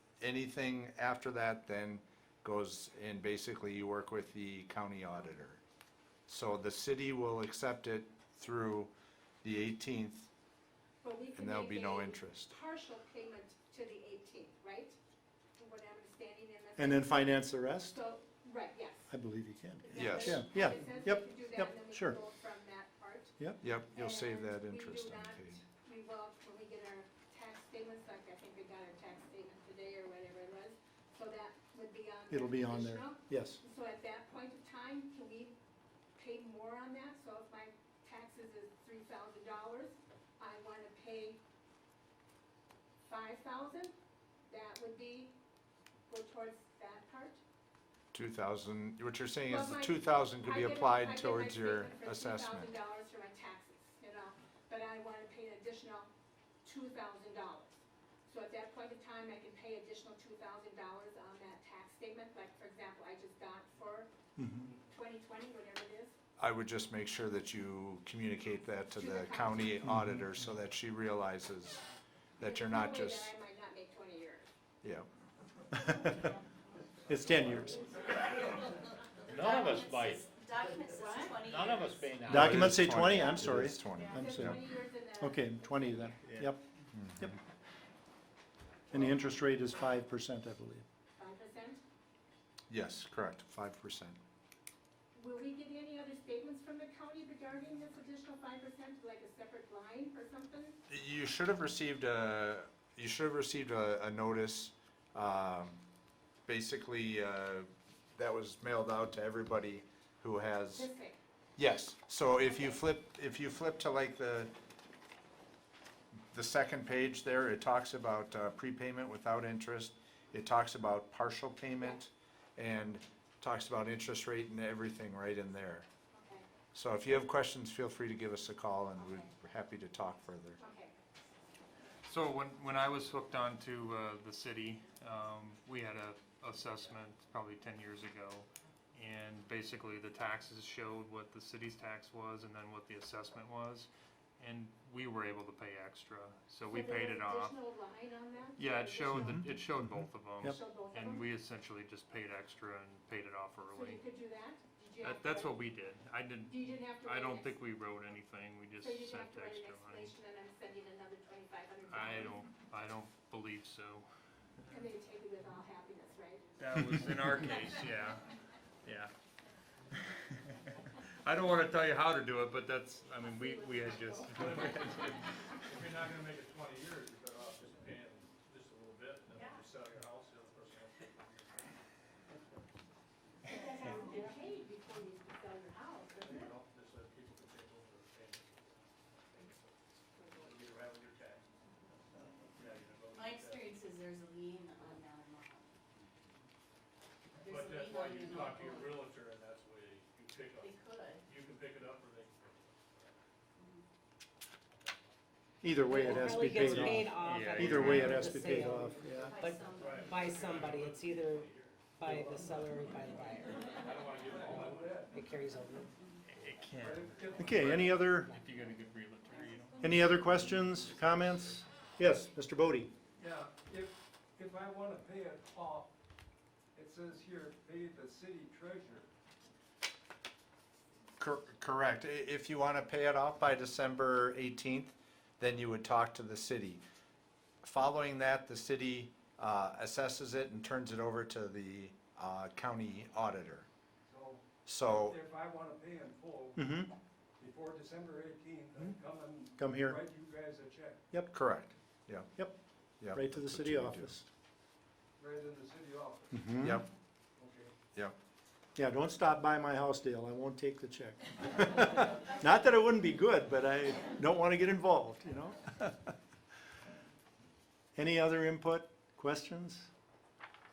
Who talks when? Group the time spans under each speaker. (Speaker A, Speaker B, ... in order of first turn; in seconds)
Speaker A: 0.2-5.6, 6.3-8.9, 9.4-10.3, 11.4-12.5, 19.9-20.4, 23.6-25.6, 48.1-52.7, 66.4-71.8, 72.4-73.3, 82.3-84.6, 87.0-87.3, 92.7-94.2, 100.9-105.8, 106.5-110.9, 111.5-114.5, 116.3-125.9, 126.7-130.6, 231.2-236.8, 237.6-243.7, 244.7-245.2, 251.3-252.3, 253.0-254.2, 256.6-256.9
Speaker B: 11.0-15.0, 15.6-19.1, 19.9-23.3, 23.9-35.5, 36.2-41.4, 43.0-43.9, 44.5-45.3, 46.1-47.4, 49.5-56.1, 56.6-64.1, 64.8-66.2, 68.9-69.8, 72.4-74.5, 83.1-83.4, 84.0-86.2, 91.2-91.8, 95.1-100.8, 110.7-111.2, 112.4-112.8, 126.1-126.5, 130.6-131.0, 146.7-149.5, 150.4-151.3, 153.7-155.6, 156.5-157.6, 158.8-162.4, 164.7-166.5, 173.3-174.3, 183.5-186.6
Speaker C: 16.8-18.0, 19.1-22.2, 32.3-33.6, 64.4-64.7, 69.8-70.5, 75.7-76.3, 77.1-77.8, 82.2-86.6, 88.9-90.8, 149.1-150.6, 166.8-167.2, 205.6-209.4, 217.4-218.3, 219.8-222.9, 246.6-246.9, 249.6-250.0, 253.1-254.2, 256.3-256.8, 258.8-266.1, 267.9-269.9
Speaker D: 19.9-21.0, 79.2-82.2, 179.3-179.7, 193.1-195.7, 197.4-199.1, 200.6-201.2, 203.6-203.8, 209.2-210.5
Speaker E: 79.3-80.2, 81.5-82.8
Speaker F: 132.1-147.6, 148.6-154.0, 155.0-160.2, 161.9-164.1, 166.6-168.3, 168.8-169.1, 171.2-175.4, 207.2-208.3, 216.3-221.2
Speaker G: 174.3-174.8, 175.6-181.8, 186.1-193.8, 197.4-203.2, 204.7-205.2, 206.1-207.1, 207.7-208.0, 209.7-212.0, 213.3-215.1
Speaker H: 205.8-213.9, 215.1-215.9, 218.2-218.5
Speaker I: 212.0-212.7, 214.2-215.2, 216.8-217.6, 223.2-225.9, 226.8-229.1, 244.1-246.6, 247.4-251.0, 255.2-256.4, 257.4-257.7